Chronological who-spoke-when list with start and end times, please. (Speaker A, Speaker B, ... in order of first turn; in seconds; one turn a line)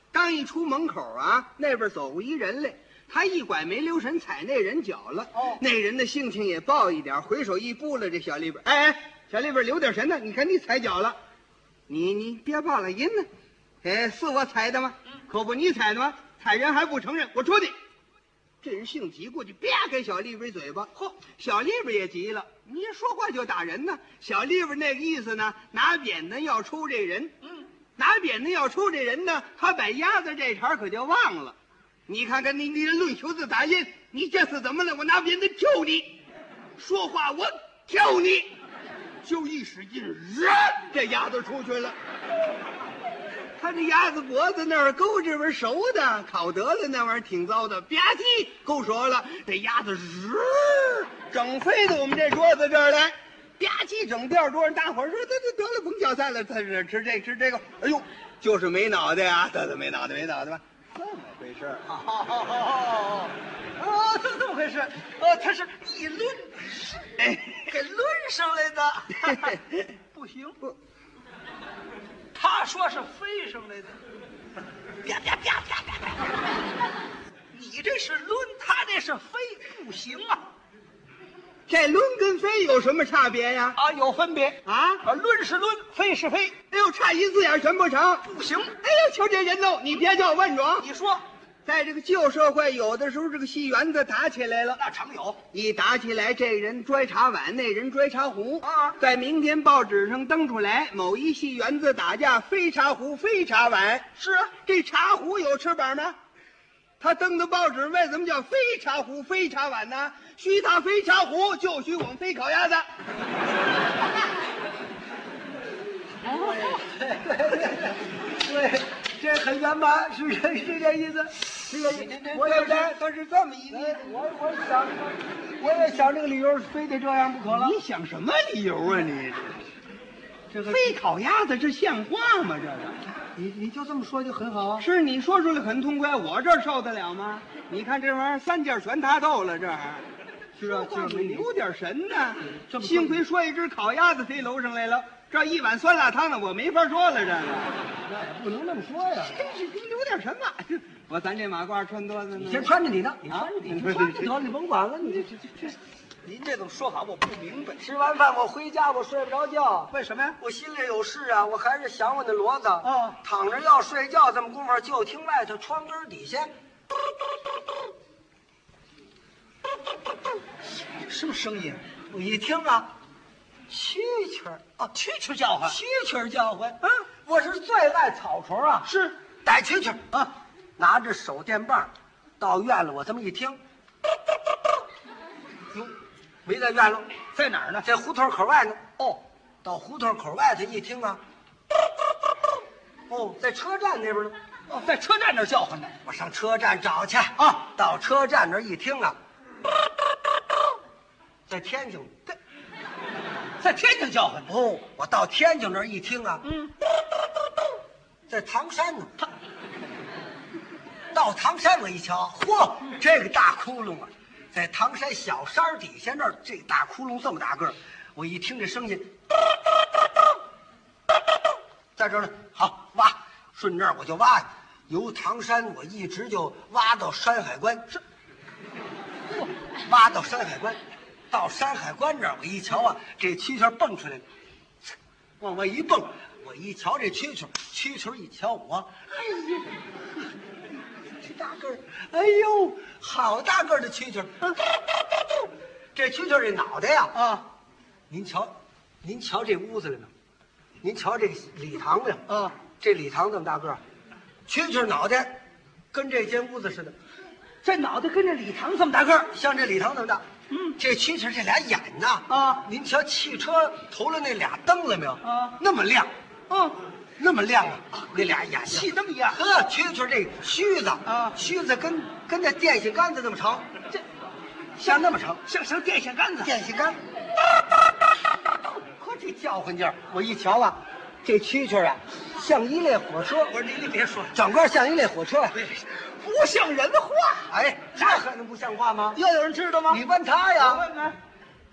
Speaker A: 0.1-11.2
Speaker B: 5.3-5.6
Speaker A: 11.9-13.3
Speaker A: 13.8-17.8
Speaker A: 18.6-27.3
Speaker A: 28.0-31.6
Speaker A: 32.1-36.2
Speaker A: 36.8-38.5
Speaker A: 39.2-42.0
Speaker A: 43.6-61.9
Speaker B: 61.9-69.6
Speaker A: 67.2-67.6
Speaker A: 69.2-69.6
Speaker B: 70.1-70.6
Speaker B: 72.3-74.0
Speaker B: 75.0-76.4
Speaker B: 77.5-80.5
Speaker A: 81.7-83.8
Speaker B: 83.8-86.6
Speaker A: 84.7-85.0
Speaker A: 86.7-88.3
Speaker B: 88.2-88.7
Speaker A: 88.8-90.9
Speaker B: 90.8-91.2
Speaker A: 91.7-94.8
Speaker B: 94.8-95.4
Speaker A: 95.5-104.1
Speaker B: 98.6-99.0
Speaker B: 104.2-104.5
Speaker A: 104.6-106.2
Speaker A: 107.0-112.8
Speaker C: 116.2-123.0
Speaker A: 121.9-124.1
Speaker C: 123.7-127.8
Speaker A: 127.5-129.7
Speaker C: 130.5-130.9
Speaker A: 130.7-133.0
Speaker C: 133.4-134.9
Speaker A: 134.8-140.0
Speaker C: 140.6-141.5
Speaker A: 140.6-147.7
Speaker C: 142.4-143.2
Speaker C: 148.1-149.6
Speaker A: 149.3-152.7
Speaker C: 152.4-155.8
Speaker A: 153.7-154.3
Speaker B: 156.2-157.8
Speaker C: 157.8-166.5
Speaker B: 159.9-160.4
Speaker B: 162.8-163.2
Speaker B: 171.1-171.8
Speaker C: 172.1-172.9
Speaker C: 173.7-174.9
Speaker B: 174.9-175.8
Speaker C: 175.6-178.9
Speaker B: 178.8-179.2
Speaker C: 179.4-180.2
Speaker C: 180.8-183.6
Speaker C: 186.4-187.1
Speaker B: 187.3-187.9
Speaker C: 187.8-189.0
Speaker C: 189.6-191.2
Speaker C: 193.1-194.4
Speaker B: 194.7-196.0
Speaker C: 196.0-199.2
Speaker B: 197.4-197.7
Speaker C: 201.5-202.2
Speaker B: 203.6-204.5
Speaker C: 204.5-206.5
Speaker B: 206.4-206.7
Speaker C: 208.3-209.1
Speaker C: 211.1-219.1
Speaker C: 222.0-228.0
Speaker C: 229.8-230.8
Speaker C: 231.3-234.2
Speaker C: 235.4-239.7
Speaker C: 241.2-244.6
Speaker C: 245.9-247.2
Speaker B: 247.2-247.5
Speaker C: 248.1-250.1
Speaker C: 250.8-253.8
Speaker B: 252.3-252.5
Speaker C: 254.5-255.4
Speaker C: 255.9-257.0
Speaker B: 257.6-259.3
Speaker C: 259.3-260.2
Speaker B: 260.5-260.8
Speaker C: 260.8-266.1
Speaker B: 262.3-262.6
Speaker B: 265.2-265.6
Speaker B: 266.5-266.8
Speaker C: 267.2-273.7
Speaker B: 268.2-269.4
Speaker B: 271.1-271.4
Speaker C: 274.8-275.4
Speaker B: 274.8-276.6
Speaker C: 276.4-277.0
Speaker C: 278.5-283.6
Speaker B: 283.5-284.4
Speaker C: 284.3-285.6
Speaker B: 285.5-287.5
Speaker C: 287.5-289.2
Speaker B: 289.1-290.0
Speaker C: 289.9-290.9
Speaker B: 290.6-291.2